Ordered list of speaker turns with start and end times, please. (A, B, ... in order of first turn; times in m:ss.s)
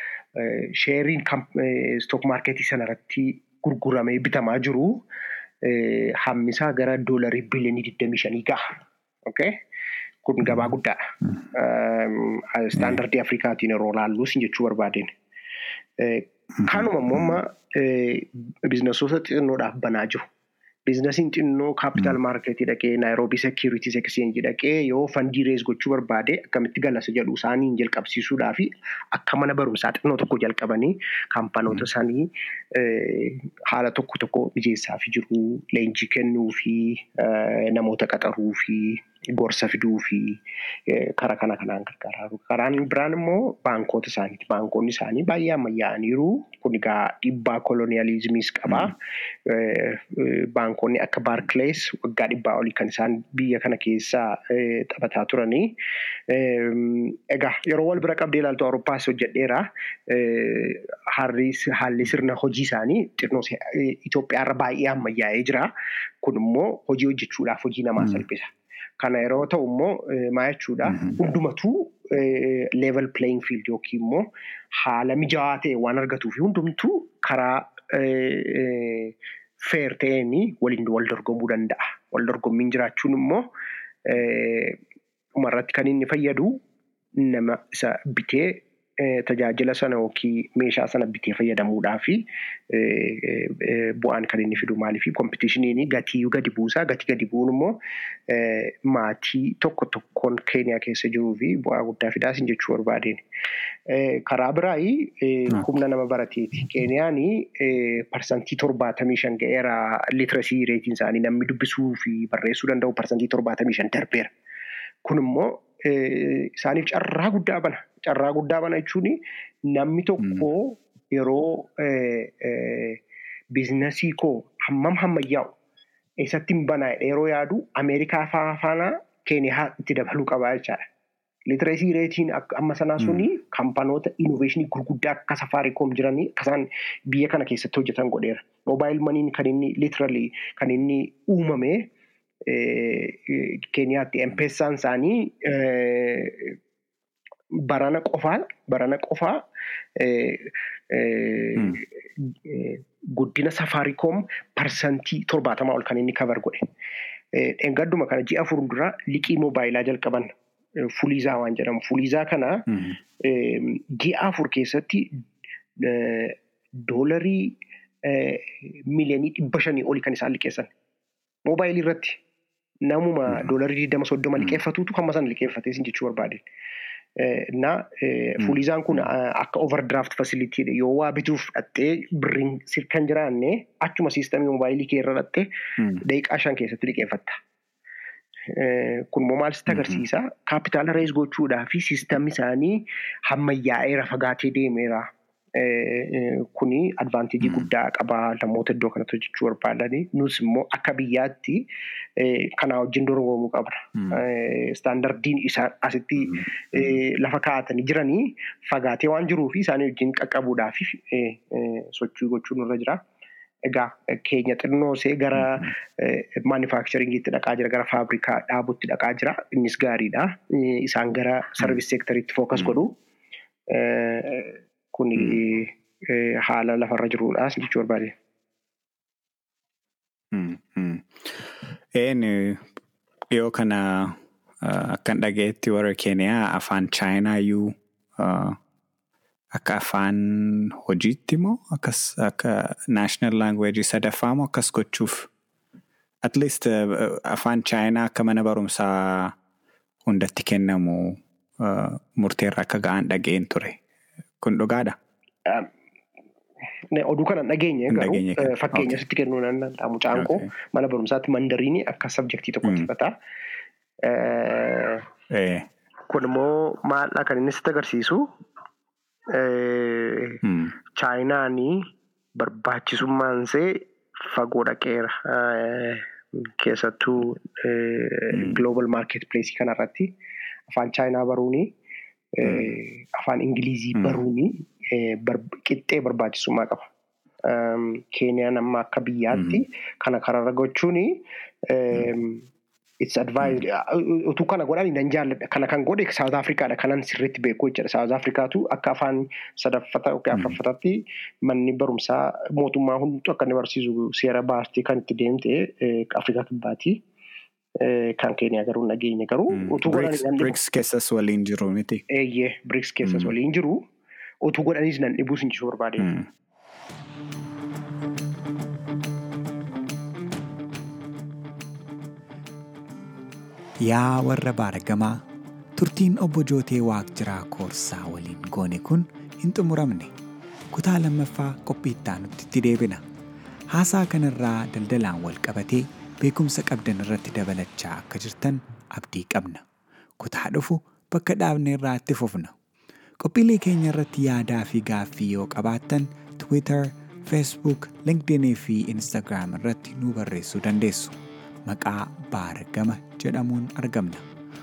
0:00.4-0:05.0 A
0:05.6-0:09.6 A
0:10.2-0:15.1 A
0:16.0-0:20.2 A
0:16.6-0:17.4 B
0:20.9-0:55.8 A
0:56.3-1:05.7 A
1:06.2-1:23.5 A
1:10.9-1:11.2 B
1:24.0-1:24.8 A
1:25.4-1:26.6 A
1:27.2-1:43.2 A
1:43.9-1:54.3 A
1:55.0-2:05.6 A
2:06.2-2:10.9 A
2:11.5-2:21.9 A
2:22.5-2:26.6 A
2:27.5-2:36.6 A
2:37.3-2:42.7 A
2:43.2-2:45.2 A
2:45.8-2:50.7 A
2:51.4-2:52.2 A
2:52.8-2:56.4 A
2:57.2-3:07.4 A
3:08.5-3:21.6 A
3:09.7-3:10.0 B
3:22.2-3:33.0 A
3:33.6-3:43.0 A
3:43.7-3:48.1 A
3:50.3-3:52.7 B
3:53.3-3:58.6 B
3:59.5-4:05.3 B
4:06.2-4:09.4 B
4:10.1-4:13.8 B
4:14.4-4:15.0 B
4:15.5-4:15.7 A
4:16.9-4:23.1 A
4:17.9-4:19.0 B
4:20.2-4:20.5 B
4:24.0-4:25.1 A
4:25.3-4:25.7 B
4:26.1-4:28.3 A
4:29.3-4:30.4 A
4:30.4-4:30.7 B
4:30.9-4:40.2 A
4:38.3-4:38.6 B
4:40.7-4:41.8 A
4:42.4-4:46.9 A
4:47.4-4:52.5 A
4:53.0-5:07.0 A
5:07.8-5:10.6 A
5:09.5-5:12.0 B
5:12.1-5:13.9 A
5:14.4-5:16.1 A
5:16.0-5:16.3 B
5:23.8-5:25.2 B
5:25.8-5:30.1 B
5:30.7-5:33.0 B
5:33.7-5:39.6 B
5:40.2-5:42.6 B
5:43.2-5:54.3 B